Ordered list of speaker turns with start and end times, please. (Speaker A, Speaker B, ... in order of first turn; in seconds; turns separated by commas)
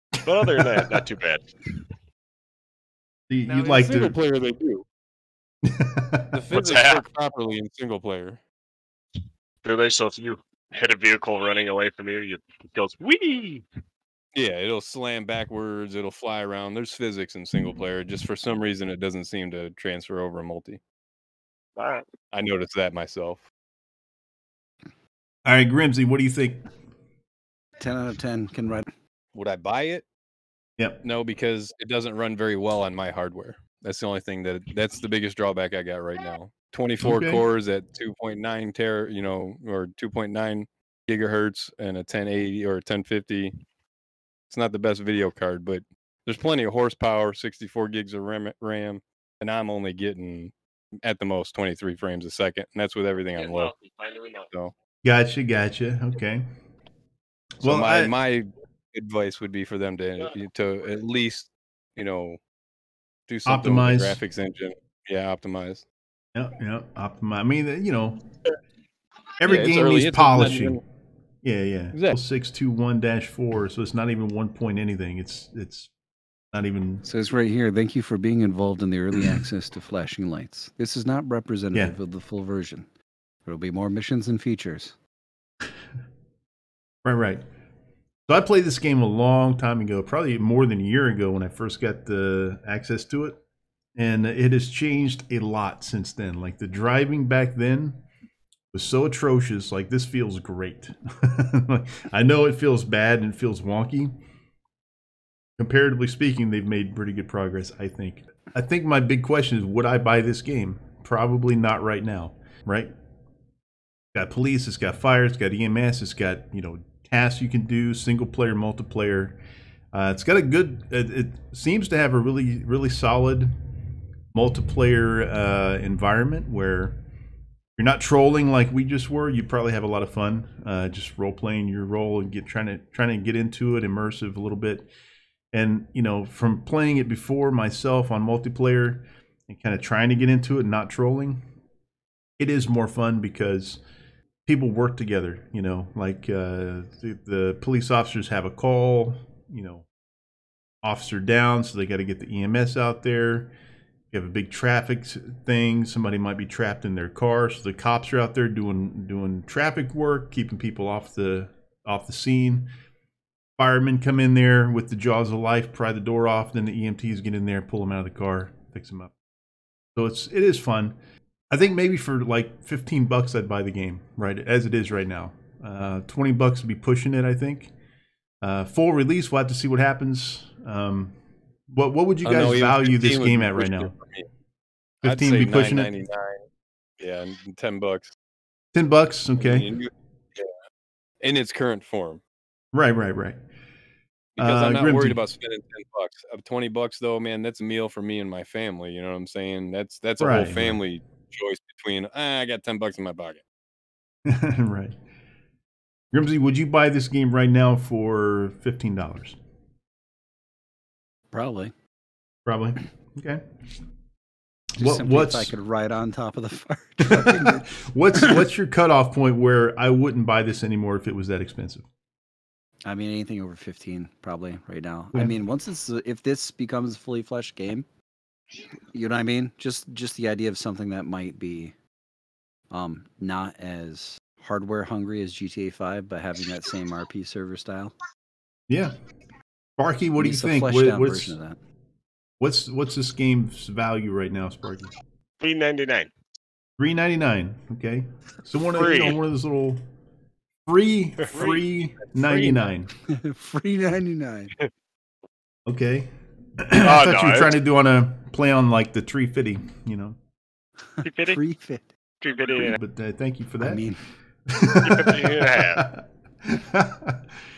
Speaker A: 0.2-1.4, Speaker B: 0.3-1.0, Speaker B: 3.3-4.2, Speaker C: 3.5-4.8, Speaker B: 5.6-6.4, Speaker C: 6.3-8.4, Speaker A: 6.5-7.0, Speaker A: 9.6-13.7, Speaker C: 14.3-20.8, Speaker A: 21.8-22.1, Speaker C: 22.3-23.5, Speaker B: 25.4-26.7, Speaker D: 27.8-28.9, Speaker C: 29.4-30.1, Speaker C: 31.0-43.5, Speaker B: 37.0-37.4, Speaker C: 44.5-50.5, Speaker C: 51.0-53.7, Speaker A: 53.4-54.5, Speaker B: 55.0-56.4, Speaker B: 57.6-58.1, Speaker C: 57.6-62.4, Speaker C: 63.3-65.8, Speaker B: 63.5-64.2, Speaker B: 66.3-68.2, Speaker B: 69.4-70.8, Speaker C: 69.4-70.8, Speaker B: 71.4-75.9, Speaker B: 76.5-77.0, Speaker D: 77.0-82.9, Speaker D: 83.5-85.0, Speaker B: 87.0-87.4, Speaker B: 88.3-93.4, Speaker B: 94.0-98.0, Speaker B: 98.7-104.1, Speaker B: 105.6-112.9, Speaker B: 114.1-119.4, Speaker B: 119.9-123.5, Speaker B: 124.3-127.0, Speaker B: 127.8-134.9, Speaker B: 135.5-141.4, Speaker B: 142.4-143.8, Speaker B: 144.5-149.9, Speaker B: 150.8-153.5, Speaker B: 154.1-162.7, Speaker B: 163.6-169.1, Speaker B: 169.9-171.0, Speaker B: 171.5-177.7, Speaker B: 178.4-181.2, Speaker B: 181.7-183.9, Speaker C: 182.2-184.3, Speaker B: 185.0-185.9, Speaker C: 185.0-186.4, Speaker C: 187.0-188.1, Speaker B: 188.7-189.7, Speaker C: 189.4-190.5, Speaker C: 191.2-192.2, Speaker B: 192.7-193.4, Speaker C: 194.4-203.4, Speaker B: 194.4-195.2, Speaker B: 200.2-200.8, Speaker B: 204.3-205.0, Speaker B: 206.1-209.4, Speaker D: 211.3-211.7, Speaker B: 212.5-213.4, Speaker B: 214.8-215.5, Speaker D: 214.8-218.4, Speaker B: 217.1-221.9, Speaker D: 222.9-227.9, Speaker D: 228.9-231.8, Speaker D: 232.7-237.9, Speaker B: 238.7-238.9, Speaker B: 239.8-241.4, Speaker D: 240.2-241.6, Speaker B: 242.4-244.9, Speaker A: 245.4-246.1, Speaker B: 246.8-249.8, Speaker A: 248.7-249.2, Speaker B: 250.7-252.9, Speaker A: 251.2-251.5, Speaker C: 251.3-252.6, Speaker D: 253.1-254.5, Speaker B: 255.7-260.2, Speaker A: 256.8-257.5, Speaker D: 261.0-261.9, Speaker A: 261.0-261.4, Speaker A: 262.2-262.8, Speaker B: 262.6-263.8, Speaker D: 263.6-264.0, Speaker B: 264.5-267.4, Speaker A: 264.7-265.8